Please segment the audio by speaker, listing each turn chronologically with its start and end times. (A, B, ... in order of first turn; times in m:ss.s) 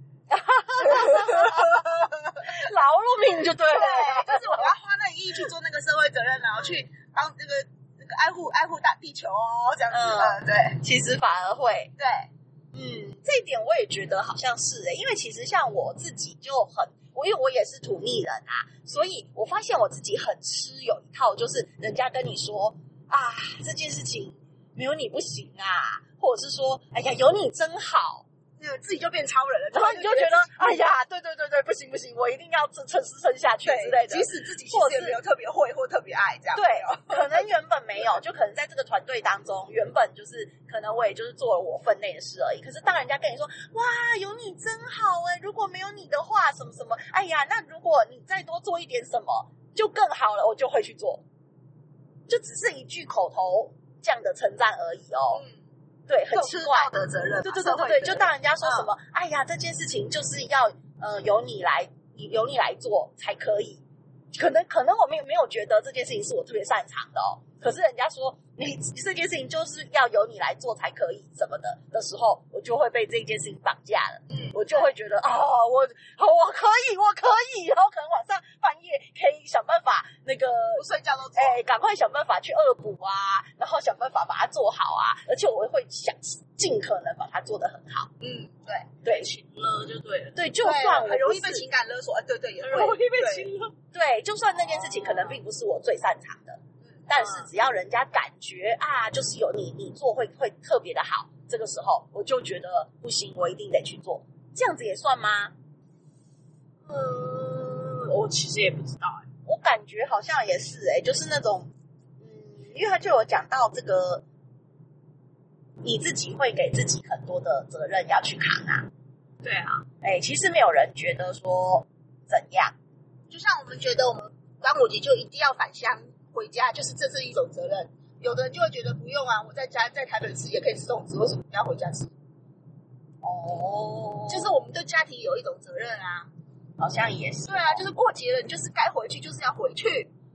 0:00.3-0:04.7 A
0:01.0-0:01.8 B
0:03.7-0:10.8 B
0:09.9-0:11.9 A
0:12.0-0:12.3 B
0:12.7-0:28.2 A
0:28.6-0:30.6 B
0:29.7-0:35.2 A
0:33.6-0:37.4 B
0:36.5-0:51.2 A
0:52.3-0:55.4 A
0:56.1-1:03.8 A
0:56.3-0:58.9 B
1:04.3-1:28.1 A
1:14.3-1:14.9 B
1:20.8-1:21.6 B
1:28.2-1:28.9 B
1:29.0-1:29.3 A
1:29.0-1:30.5 C
1:30.4-1:31.7 A
1:30.6-1:33.5 B
1:32.6-1:33.8 C
1:33.9-1:45.6 A
1:35.0-1:35.4 C
1:46.9-1:49.3 C
1:49.5-1:54.2 A
1:55.8-1:58.9 A
1:59.4-1:59.9 C
2:00.0-2:02.8 A
2:03.3-2:12.1 B
2:13.2-2:14.6 A
2:14.3-2:16.3 B
2:16.8-2:17.9 A
2:17.5-2:20.1 B